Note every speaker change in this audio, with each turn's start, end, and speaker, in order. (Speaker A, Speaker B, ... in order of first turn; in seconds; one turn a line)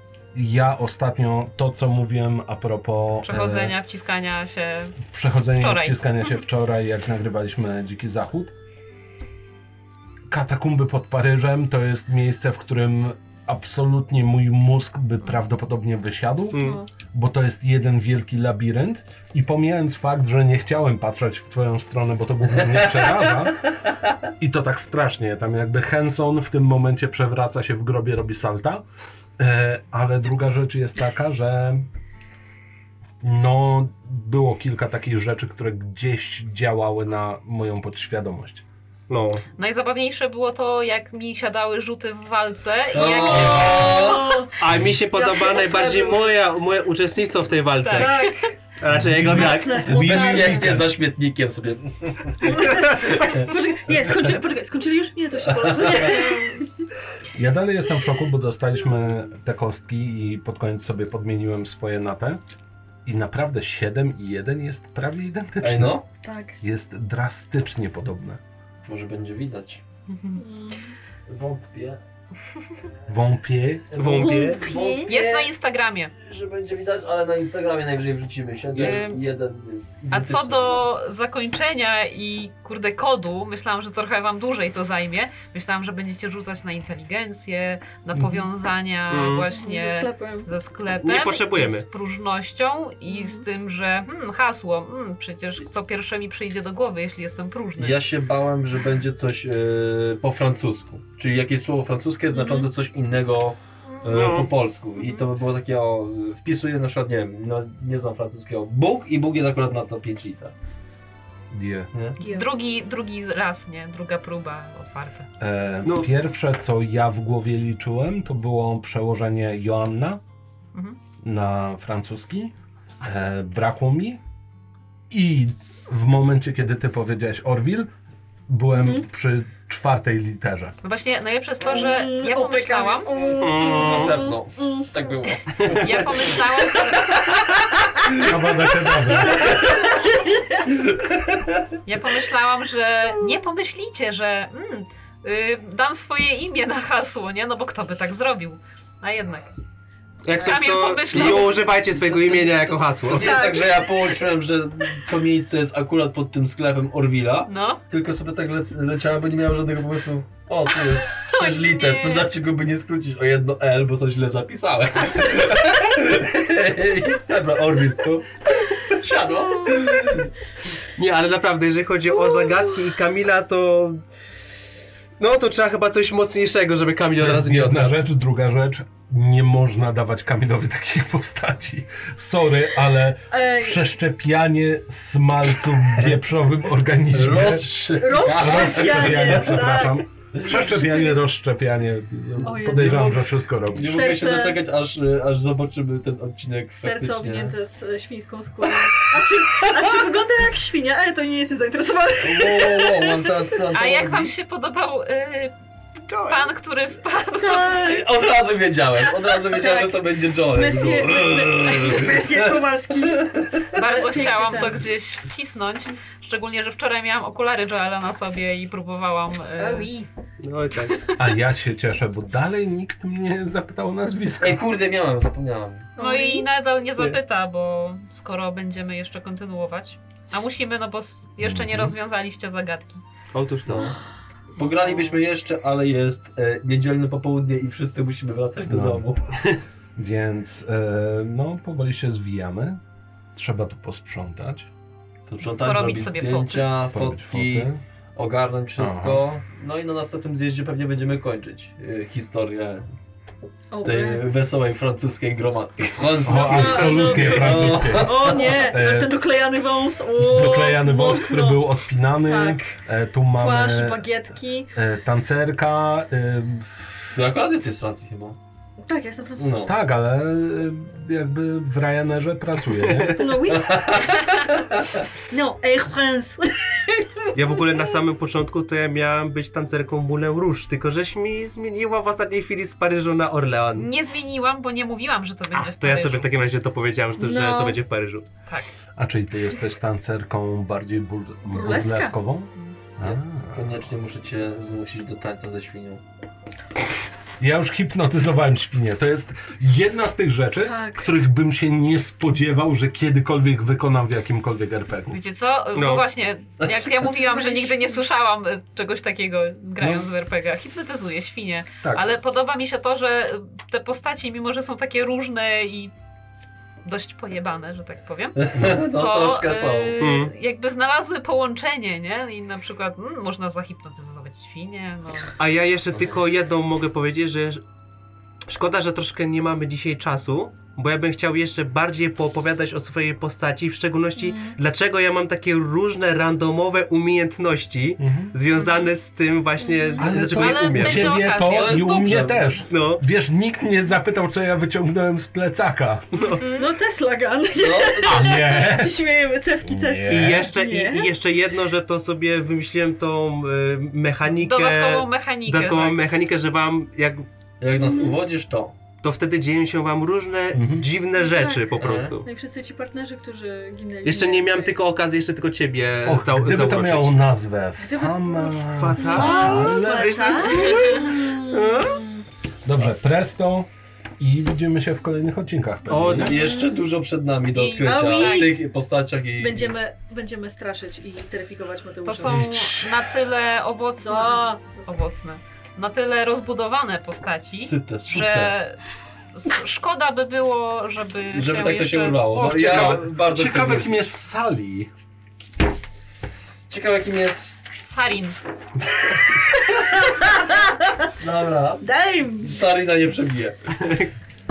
Speaker A: 0.3-3.8
Speaker B: 3.2-5.0
Speaker A: 5.0-8.5
Speaker B: 5.5-6.0
Speaker A: 10.3-23.7
Speaker C: 16.5-16.8
Speaker D: 16.6-16.9
Speaker E: 22.6-23.1
Speaker E: 23.8-24.1
Speaker A: 24.4-28.8
Speaker A: 29.4-31.9
Speaker A: 33.2-38.6
Speaker C: 39.1-39.4
Speaker B: 39.6-43.9
Speaker E: 42.9-44.4
Speaker C: 43.3-50.0
Speaker D: 43.3-44.5
Speaker A: 43.4-44.1
Speaker A: 44.7-45.0
Speaker D: 45.1-46.3
Speaker B: 47.8-48.5
Speaker D: 47.8-48.5
Speaker A: 48.9-50.9
Speaker D: 49.3-50.8
Speaker E: 49.8-53.5
Speaker D: 52.5-56.9
Speaker C: 52.5-53.1
Speaker E: 55.4-56.3
Speaker A: 57.3-62.4
Speaker A: 63.0-66.0
Speaker E: 65.6-66.0
Speaker D: 66.2-66.5
Speaker A: 66.6-68.4
Speaker E: 68.9-69.8
Speaker B: 70.1-70.4
Speaker D: 70.3-70.9
Speaker E: 71.3-72.0
Speaker A: 73.1-73.9
Speaker E: 73.9-75.5
Speaker C: 74.0-74.7
Speaker D: 74.1-75.1
Speaker B: 75.0-76.1
Speaker E: 76.2-80.8
Speaker B: 78.7-79.2
Speaker B: 80.1-98.0
Speaker A: 88.1-88.5
Speaker C: 89.1-89.5
Speaker D: 89.5-90.5
Speaker C: 91.0-91.8
Speaker D: 93.1-93.4
Speaker E: 97.8-110.5
Speaker C: 104.1-104.5
Speaker B: 105.0-105.3
Speaker A: 111.5-111.9
Speaker E: 111.9-112.2
Speaker B: 112.2-115.3
Speaker D: 112.2-112.5
Speaker A: 115.4-120.2
Speaker C: 115.8-116.1
Speaker A: 121.2-124.2
Speaker A: 125.1-127.9
Speaker A: 128.5-130.7
Speaker D: 128.7-129.0
Speaker B: 130.8-133.1
Speaker D: 131.6-135.3
Speaker C: 133.4-134.3
Speaker E: 133.4-136.3
Speaker C: 135.6-135.9
Speaker B: 135.7-137.3
Speaker A: 138.2-139.7
Speaker E: 139.3-139.9
Speaker B: 141.8-149.5
Speaker C: 150.2-153.4
Speaker B: 150.3-151.7
Speaker D: 150.4-150.7
Speaker E: 151.1-170.3
Speaker D: 153.2-154.0
Speaker B: 157.5-157.8
Speaker D: 161.2-162.3
Speaker C: 170.9-174.0
Speaker C: 175.2-177.9
Speaker E: 177.2-177.7
Speaker A: 177.3-194.0
Speaker D: 183.3-183.8
Speaker E: 187.1-189.7
Speaker D: 188.0-191.2
Speaker D: 192.4-194.7
Speaker E: 192.6-197.6
Speaker D: 196.8-203.6
Speaker E: 199.4-199.9
Speaker E: 202.2-204.3
Speaker B: 203.7-205.5
Speaker C: 206.1-206.4
Speaker B: 206.2-207.8
Speaker D: 207.4-208.1
Speaker E: 207.8-213.7
Speaker D: 209.3-214.9
Speaker B: 213.7-219.9
Speaker D: 219.6-220.1
Speaker C: 220.4-221.1
Speaker B: 220.9-221.3
Speaker A: 221.2-224.6
Speaker E: 224.4-225.9
Speaker D: 225.9-226.5
Speaker B: 226.0-233.0
Speaker A: 231.4-231.9
Speaker C: 233.3-233.9
Speaker E: 233.7-233.9
Speaker E: 234.6-239.4
Speaker B: 234.6-235.1
Speaker A: 238.7-239.0
Speaker A: 239.9-242.8
Speaker A: 243.3-244.7
Speaker E: 245.3-252.9
Speaker B: 245.4-246.7
Speaker A: 246.9-247.8
Speaker A: 248.8-249.2
Speaker D: 253.7-254.2
Speaker E: 253.8-258.6
Speaker A: 256.2-259.1
Speaker D: 256.3-262.8
Speaker A: 260.2-264.1
Speaker D: 263.3-264.7
Speaker A: 264.7-266.9
Speaker E: 267.1-268.4
Speaker D: 268.8-269.6
Speaker E: 269.4-269.8
Speaker A: 269.6-273.5
Speaker C: 272.8-273.1
Speaker D: 273.1-274.6
Speaker E: 273.5-274.8
Speaker D: 275.3-277.3
Speaker C: 277.3-283.9
Speaker B: 283.7-286.3
Speaker C: 285.5-288.2
Speaker D: 287.2-287.8
Speaker A: 288.9-293.9
Speaker D: 291.5-292.1
Speaker E: 293.0-296.0
Speaker A: 297.4-305.2
Speaker D: 300.6-301.1
Speaker B: 305.1-315.9
Speaker C: 305.7-306.0
Speaker D: 306.9-308.0
Speaker A: 309.8-310.1
Speaker A: 311.8-312.1
Speaker B: 316.8-325.3
Speaker E: 318.4-320.0
Speaker C: 320.0-320.3
Speaker C: 325.4-327.6
Speaker C: 328.5-341.2
Speaker D: 334.2-334.6
Speaker A: 338.0-338.3
Speaker D: 339.6-340.1
Speaker A: 340.0-346.1
Speaker B: 340.2-341.8
Speaker E: 341.4-342.6
Speaker C: 342.7-343.0
Speaker C: 346.1-346.5
Speaker B: 346.2-346.7
Speaker D: 346.6-351.1
Speaker E: 347.5-348.3
Speaker A: 348.1-349.1
Speaker A: 349.6-350.5
Speaker C: 350.0-357.3
Speaker B: 354.4-356.0
Speaker E: 357.6-358.7
Speaker D: 357.7-358.2
Speaker C: 359.0-362.2
Speaker A: 360.5-360.9
Speaker D: 361.1-364.8
Speaker E: 361.8-362.1
Speaker C: 364.0-367.2
Speaker A: 366.0-370.4
Speaker D: 367.8-372.2
Speaker C: 368.7-372.0
Speaker B: 370.6-371.1
Speaker A: 372.6-376.4
Speaker C: 375.9-376.4
Speaker E: 375.9-379.8
Speaker D: 376.3-376.9
Speaker B: 377.5-378.6
Speaker D: 377.8-378.6
Speaker D: 379.4-382.5
Speaker B: 382.0-388.8
Speaker A: 382.2-383.1
Speaker D: 384.0-384.9
Speaker E: 387.5-388.6
Speaker B: 389.3-392.2
Speaker E: 391.3-394.0
Speaker A: 392.2-394.9
Speaker E: 396.7-397.6
Speaker B: 397.8-398.4
Speaker E: 398.9-399.3
Speaker D: 400.1-400.7
Speaker E: 401.2-401.9
Speaker D: 401.8-402.5
Speaker E: 402.4-403.6
Speaker C: 403.7-404.1